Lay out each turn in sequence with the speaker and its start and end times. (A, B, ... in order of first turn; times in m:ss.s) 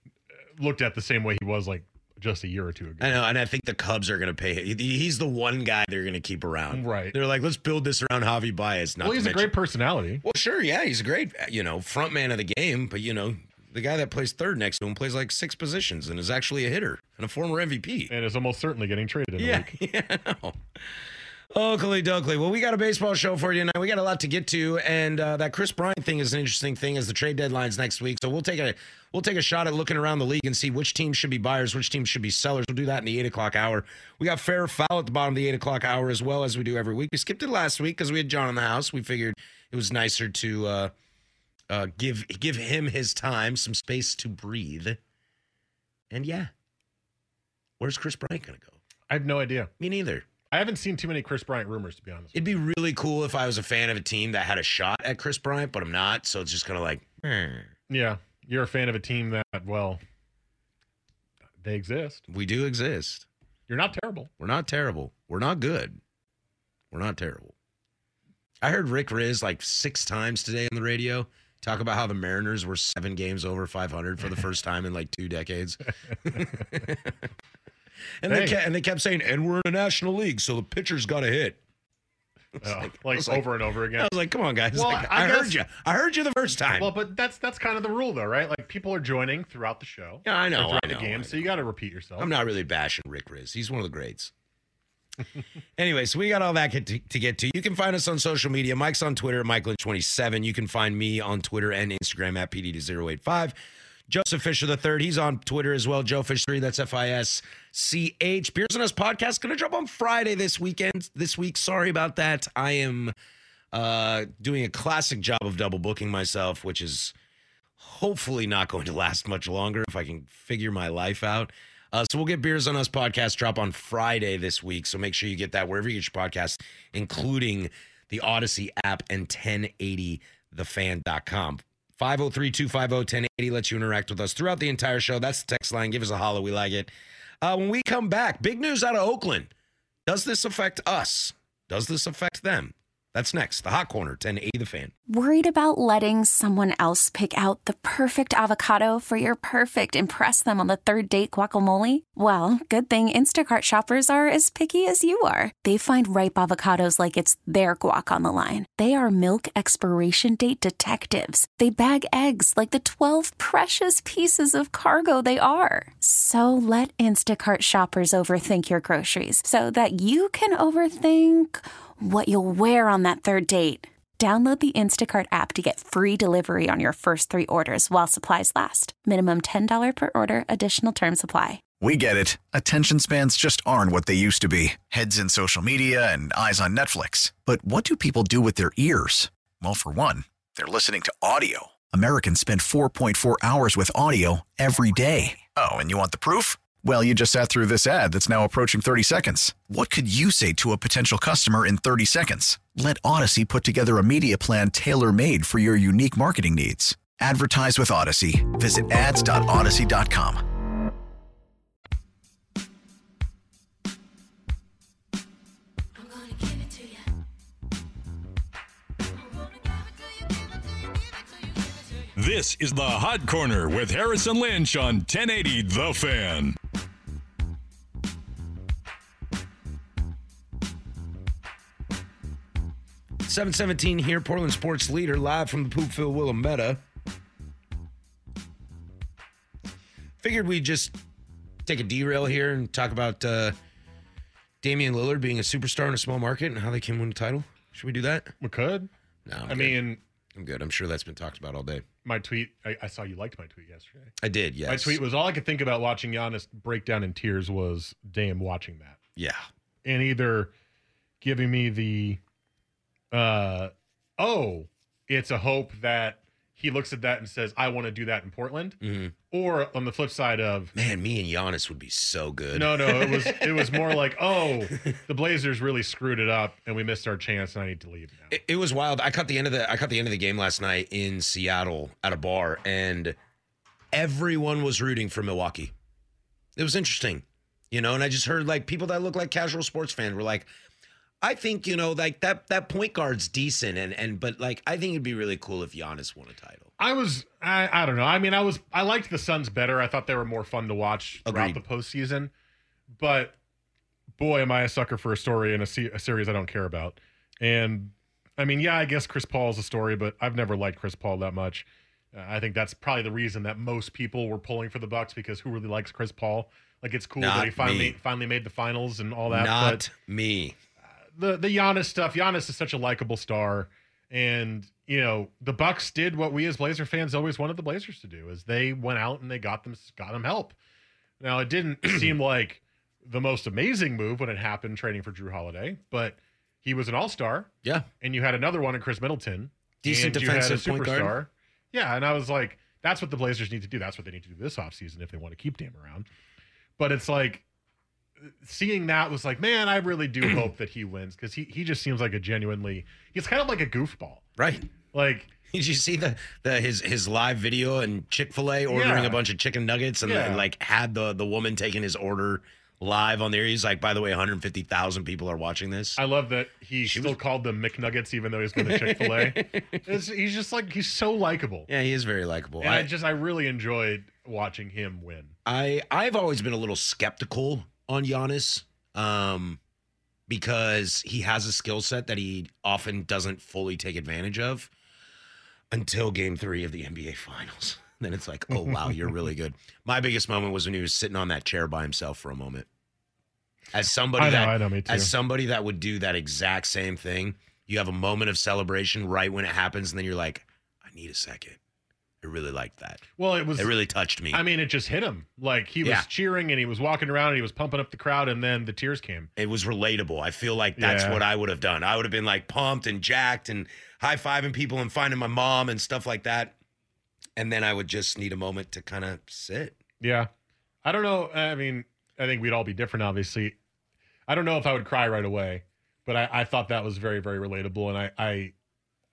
0:00.6-0:03.1 A
0:03.0-0:09.5 B
0:06.7-0:07.2 A
0:09.0-0:10.2 A
0:10.2-0:18.1 B
0:18.1-0:19.7 A
0:19.4-0:20.6 B
0:21.5-0:40.9 B
0:41.7-0:45.0 B
0:46.1-0:46.5 B
0:47.8-0:48.8 B
0:49.1-0:49.7 A
0:49.8-0:50.2 B
0:50.5-0:52.4 A
0:52.3-0:57.7 B
0:57.9-1:00.0 A
1:01.6-1:02.2 A
1:02.3-1:03.2 B
1:03.7-1:04.3 A
1:04.4-1:06.0 B
1:06.9-1:07.5 B
1:08.6-1:17.1 B
1:18.2-1:21.6 B
1:18.3-1:18.6 A
1:22.6-1:26.9 B
1:22.6-1:24.1 A
1:24.7-1:25.6 A
1:26.8-1:32.3 A
1:30.2-1:31.5 B
1:32.2-1:34.3 B
1:35.8-1:43.5 B
1:44.1-1:53.1 B
1:53.7-1:57.1 B
1:57.8-2:16.9 B
2:17.4-2:19.5 B
2:20.1-2:24.9 B
2:25.1-3:01.6 C
3:01.8-3:30.4 D
3:42.1-3:46.6 E
3:53.2-3:56.8 B
4:00.2-4:01.0 B
4:01.6-4:03.6 B
4:04.6-4:08.3 B
4:08.4-4:08.9 A
4:09.2-4:09.8 B
4:09.5-4:10.0 A
4:10.4-4:11.8 B
4:12.0-4:14.1 A
4:14.2-4:15.0 B
4:14.7-4:19.0 A
4:19.2-4:19.4 B
4:19.8-4:20.5 A
4:21.2-4:22.2 A
4:23.1-4:28.8 A
4:28.8-4:29.1 B
4:29.3-4:30.7 A
4:30.7-4:35.0 B
4:32.5-4:38.4 A
4:38.3-4:43.2 B
4:43.9-4:45.7 B
4:46.6-4:50.5 B
4:51.2-4:56.7 B
4:56.8-5:02.3 A
5:01.3-5:01.6 B
5:03.0-5:03.4 A
5:04.2-5:19.8 A
5:17.2-5:18.0 B
5:19.3-5:20.6 B
5:21.2-5:30.6 A
5:31.2-5:37.5 A
5:38.0-5:46.0 A
5:39.8-5:41.1 B
5:46.8-5:47.4 A
5:48.2-5:54.2 A
5:54.4-5:54.7 B
5:54.9-5:55.3 A
5:55.5-6:06.0 B
5:58.7-5:59.2 A
6:00.0-6:00.4 A
6:06.0-6:11.7 A
6:06.8-6:07.2 B
6:08.6-6:09.8 B
6:11.7-6:12.9 B
6:12.6-6:15.3 A
6:15.4-6:19.6 B
6:20.3-6:24.7 B
6:25.7-6:32.7 B
6:33.7-6:41.6 B
6:34.2-6:35.1 A
6:42.2-6:44.4 B
6:43.2-6:43.7 A
6:44.3-6:49.3 A
6:49.4-6:56.5 B
6:50.8-6:51.2 A
6:57.4-6:59.8 B
7:00.0-7:00.3 A
7:00.8-7:03.6 A
7:04.3-7:08.5 A